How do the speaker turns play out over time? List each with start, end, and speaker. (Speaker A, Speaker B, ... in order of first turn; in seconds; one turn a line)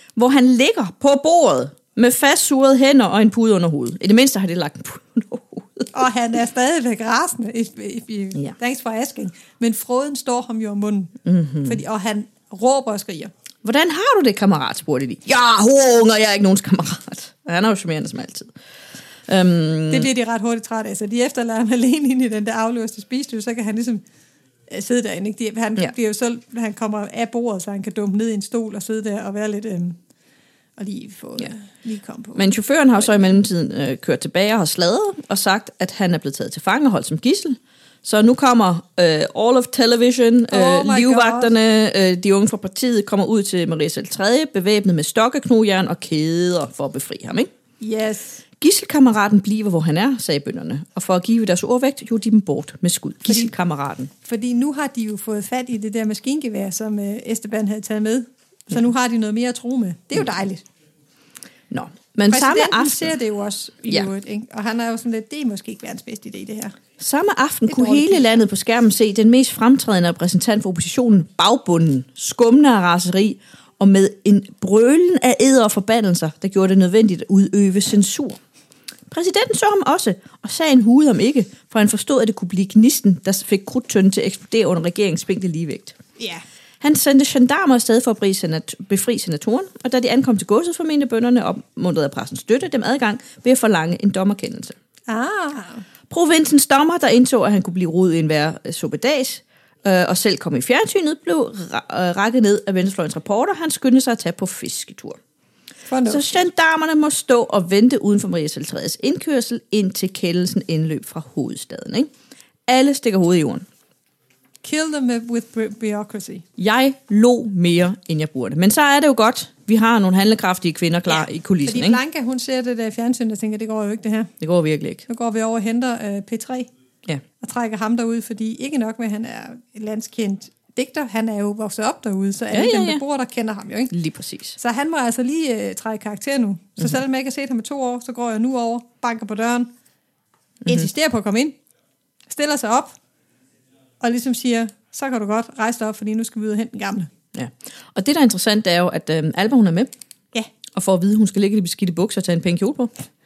Speaker A: 0.2-5.9
Speaker B: 5.9-13.3
Speaker A: 11.2-11.8
Speaker A: 13.6-18.5
Speaker A: 19.3-20.1
Speaker B: 19.9-24.0
Speaker B: 24.7-30.0
Speaker B: 30.8-32.5
Speaker A: 32.4-47.5
Speaker B: 40.5-41.5
Speaker B: 47.8-48.4
Speaker A: 48.6-54.1
Speaker B: 54.2-60.6
Speaker A: 61.7-63.1
Speaker B: 62.3-66.8
Speaker A: 67.0-78.4
Speaker B: 67.7-68.4
Speaker A: 79.1-86.0
Speaker A: 86.8-94.8
Speaker B: 95.1-95.8
Speaker A: 96.1-105.2
Speaker B: 105.9-106.3
Speaker A: 106.1-112.1
Speaker A: 112.7-113.7
Speaker B: 114.6-116.5
Speaker A: 116.6-122.0
Speaker B: 121.1-124.3
Speaker A: 124.4-125.0
Speaker B: 125.1-126.7
Speaker B: 127.4-133.9
Speaker A: 132.5-133.0
Speaker A: 133.9-134.6
Speaker B: 134.6-139.7
Speaker B: 140.7-141.6
Speaker B: 142.3-143.0
Speaker B: 144.0-147.1
Speaker A: 147.3-149.9
Speaker A: 150.7-152.9